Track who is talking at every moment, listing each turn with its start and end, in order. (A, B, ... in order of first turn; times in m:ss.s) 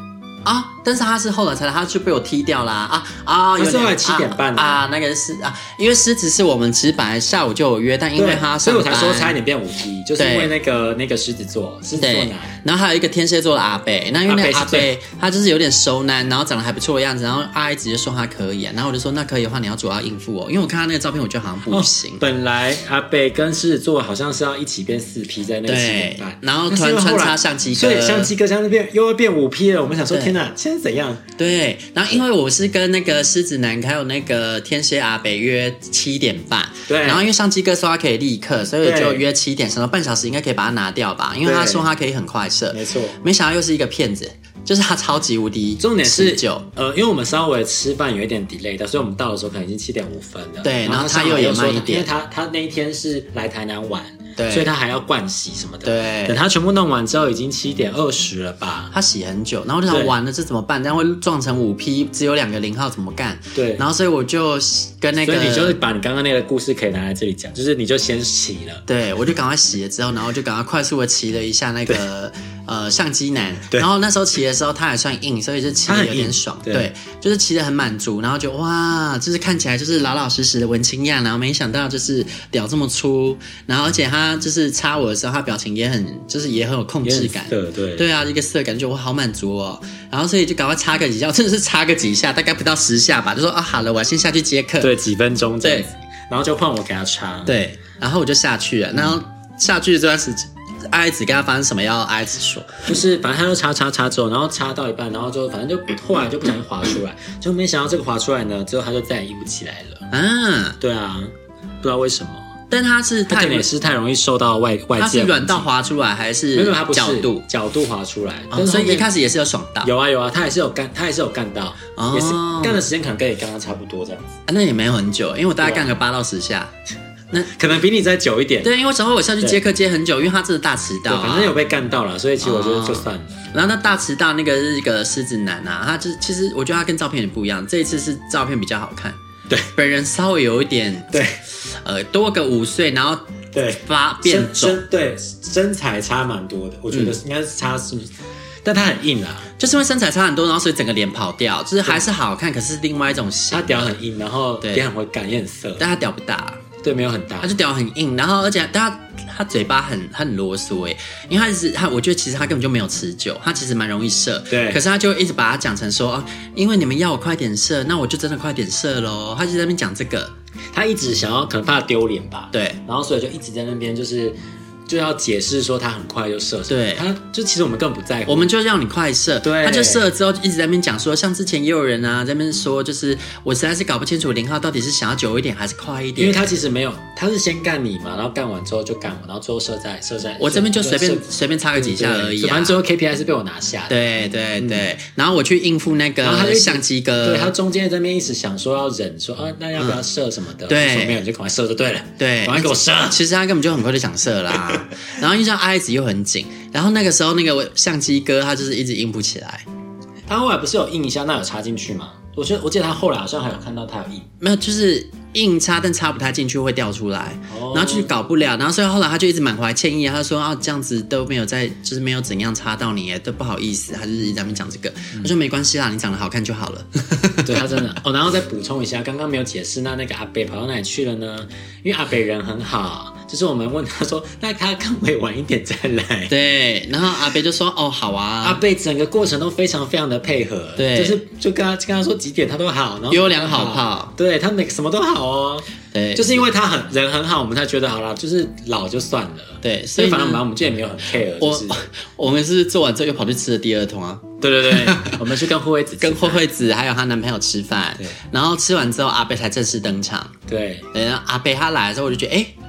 0:00.4-0:09.4 A
0:03.6-0:04.8 B
0:08.2-0:12.6 B
0:10.2-0:10.5 A
0:12.0-0:22.2 A
0:14.3-0:14.9 B
0:21.7-0:31.3 B
0:25.7-0:28.3 A
0:31.4-0:46.7 A
0:36.9-0:37.3 B
0:38.8-0:39.2 B
0:41.4-0:41.9 B
0:42.7-0:43.2 B
0:45.8-0:58.9 B
0:50.6-0:52.1 A
0:54.4-0:54.7 A
0:55.8-0:56.4 A
0:58.9-1:05.8 A
0:59.9-1:00.1 B
1:03.6-1:03.8 B
1:05.2-1:08.8 B
1:08.9-1:34.9 A
1:15.9-1:16.9 B
1:27.0-1:28.1 B
1:34.8-1:37.6 B
1:35.6-1:35.9 A
1:37.5-1:42.9 A
1:42.9-1:50.1 B
1:50.1-1:50.8 A
1:50.8-1:52.5 B
1:52.7-1:53.7 A
1:53.3-1:55.7 B
1:55.0-1:57.4 A
1:56.5-1:59.1 B
1:58.5-1:59.9 A
1:59.8-2:04.4 B
2:02.0-2:02.8 A
2:04.5-2:06.7 A
2:05.6-2:06.0 B
2:07.5-2:08.7 B
2:08.6-2:11.6 A
2:11.1-2:13.4 B
2:12.4-2:19.2 A
2:19.7-2:23.2 A
2:21.1-2:21.4 B
2:23.5-2:28.1 B
2:23.8-2:24.8 A
2:26.9-2:27.2 A
2:28.6-2:29.5 B
2:29.6-2:34.0 A
2:33.5-2:35.8 B
2:35.8-2:36.6 A
2:36.8-2:37.5 B
2:37.4-2:50.3 A
2:44.5-2:44.8 B
2:50.7-2:54.4 B
2:52.5-2:52.8 A
2:54.9-2:58.5 B
2:56.7-2:57.0 A
2:58.3-3:06.5 A
2:59.4-3:00.1 B
3:06.2-3:14.0 B
3:10.4-3:12.8 A
3:13.9-3:17.5 A
3:14.6-3:14.8 B
3:16.2-3:23.2 B
3:20.7-3:21.2 A
3:22.2-3:29.6 A
3:30.3-3:34.3 B
3:34.4-3:47.9 A
3:37.5-3:38.1 B
3:47.4-3:56.3 B
3:56.3-3:58.6 A
3:58.4-4:11.8 B
4:00.8-4:01.2 A
4:03.1-4:04.1 A
4:05.9-4:06.4 A
4:09.6-4:10.4 A
4:11.4-4:15.2 A
4:14.4-4:16.4 B
4:16.0-4:20.3 A
4:20.5-4:20.9 B
4:20.9-4:22.5 A